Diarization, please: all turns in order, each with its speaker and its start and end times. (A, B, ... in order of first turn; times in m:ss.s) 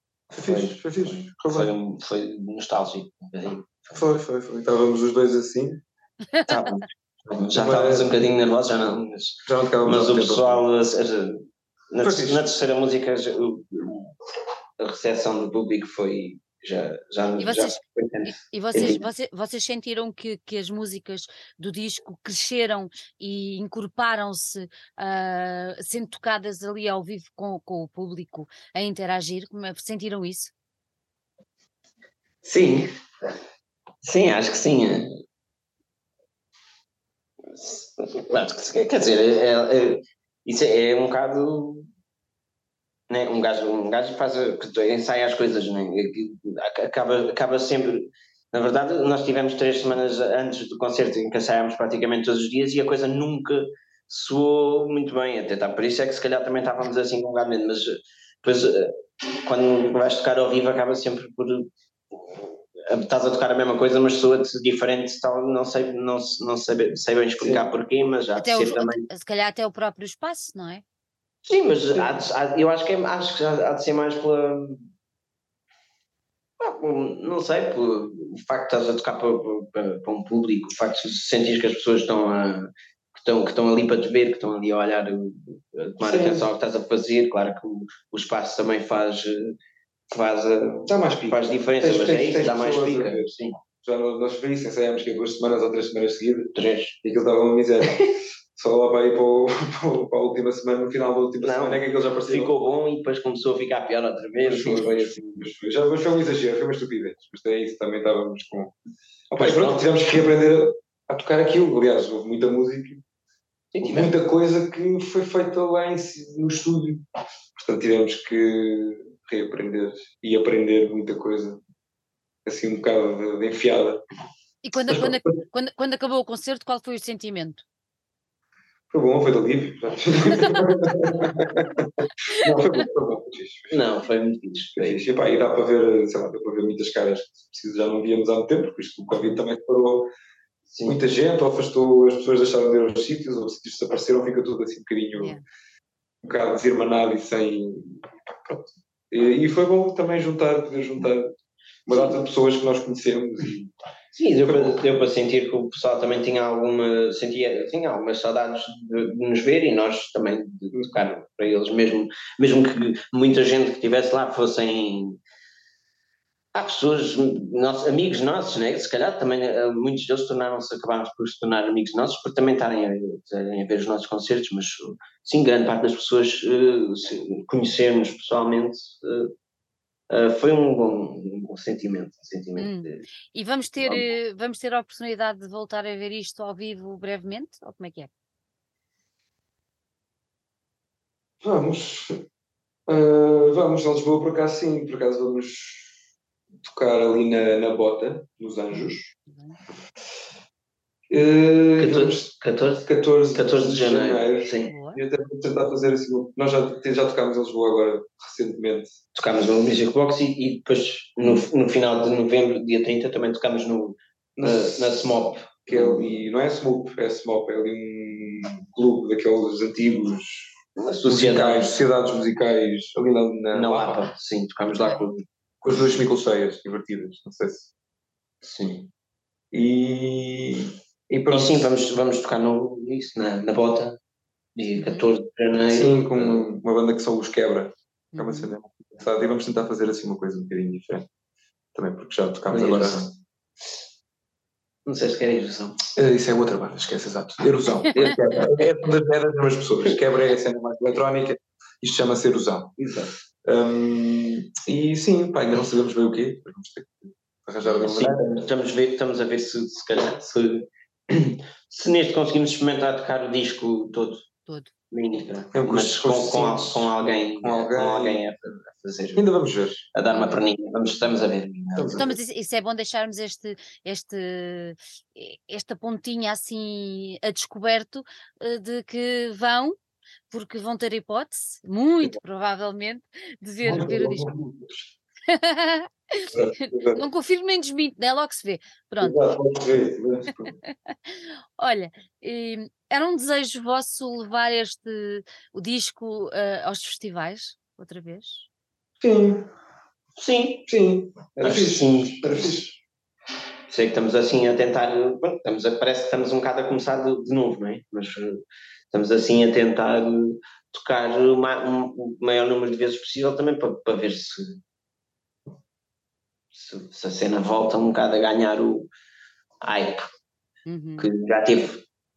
0:00.3-0:01.7 A
0:00.4-0:04.0 B
0:03.9-0:05.8 A
0:06.3-0:06.7 C
0:06.5-0:14.1 B
0:07.5-0:08.1 A
0:09.4-0:10.6 A
0:12.0-0:12.5 A
0:14.8-0:19.0 B
0:17.4-0:30.5 C
0:32.4-0:32.9 B
0:34.0-0:35.1 B
0:37.5-0:41.9 B
0:43.1-1:09.1 B
1:07.4-1:07.7 A
1:08.4-1:10.8 C
1:11.4-1:14.9 B
1:16.6-1:29.6 B
1:26.0-1:26.5 A
1:30.1-1:33.6 B
1:30.9-1:36.5 A
1:36.6-1:37.0 B
1:37.0-1:38.0 A
1:37.9-1:38.1 B
1:38.5-1:42.5 A
1:41.4-1:45.4 B
1:44.4-1:48.7 A
1:49.3-1:53.0 A
1:49.4-1:49.8 B
1:53.7-1:54.1 B
1:53.8-1:57.0 A
1:57.6-2:01.6 A
2:02.4-2:04.0 A
2:04.6-2:07.6 C
2:04.9-2:05.2 A
2:08.9-2:13.8 A
2:13.7-2:15.0 B
2:14.8-2:20.1 A
2:20.7-2:21.0 B
2:20.8-2:25.4 A
2:25.2-2:25.4 C
2:26.2-2:31.3 A
2:31.8-2:33.7 A
2:31.9-2:32.1 B
2:34.1-2:45.2 B
2:34.4-2:34.8 A
2:46.5-2:59.3 B
3:00.1-3:03.0 B
3:02.6-3:08.1 C
3:11.4-3:12.2 A
3:12.9-3:15.9 A
3:16.6-3:19.1 A
3:18.7-3:19.6 C
3:21.1-3:22.3 A
3:21.8-3:24.7 B
3:22.8-3:29.0 A
3:24.6-3:25.0 C
3:29.1-3:36.1 B
3:34.4-3:35.0 A
3:35.7-3:44.1 A
3:40.8-3:41.7 B
3:43.5-3:45.2 B
3:44.7-3:45.0 C
3:45.6-3:47.7 A
3:48.4-3:48.9 B
3:49.5-3:51.7 A
3:51.3-3:54.0 B
3:54.6-3:56.4 B
3:54.8-3:55.0 C
3:55.7-4:01.1 A
3:58.1-3:58.5 C
4:01.7-4:03.1 A
4:02.5-4:03.1 B
4:04.8-4:05.9 B
4:05.9-4:12.9 A
4:07.9-4:08.7 B
4:12.8-4:13.1 B
4:13.4-4:18.4 A
4:17.8-4:24.2 B
4:24.9-4:29.3 B
4:25.5-4:28.2 A
4:29.1-4:29.8 A
4:29.9-4:32.1 B
4:30.1-4:30.4 C
4:31.7-4:32.2 A
4:32.0-4:39.8 C
4:40.3-4:44.4 C
4:43.6-4:44.8 A
4:45.3-4:49.2 C
4:46.3-4:47.0 A
4:49.0-4:50.6 A
4:50.6-4:58.5 C
4:59.0-4:59.5 A
5:00.2-5:00.7 B
5:00.7-5:02.8 A
5:01.4-5:02.7 B
5:03.7-5:14.6 B
5:16.5-5:18.9 B
5:19.6-5:20.1 B
5:20.6-5:21.1 C
5:21.0-5:21.8 B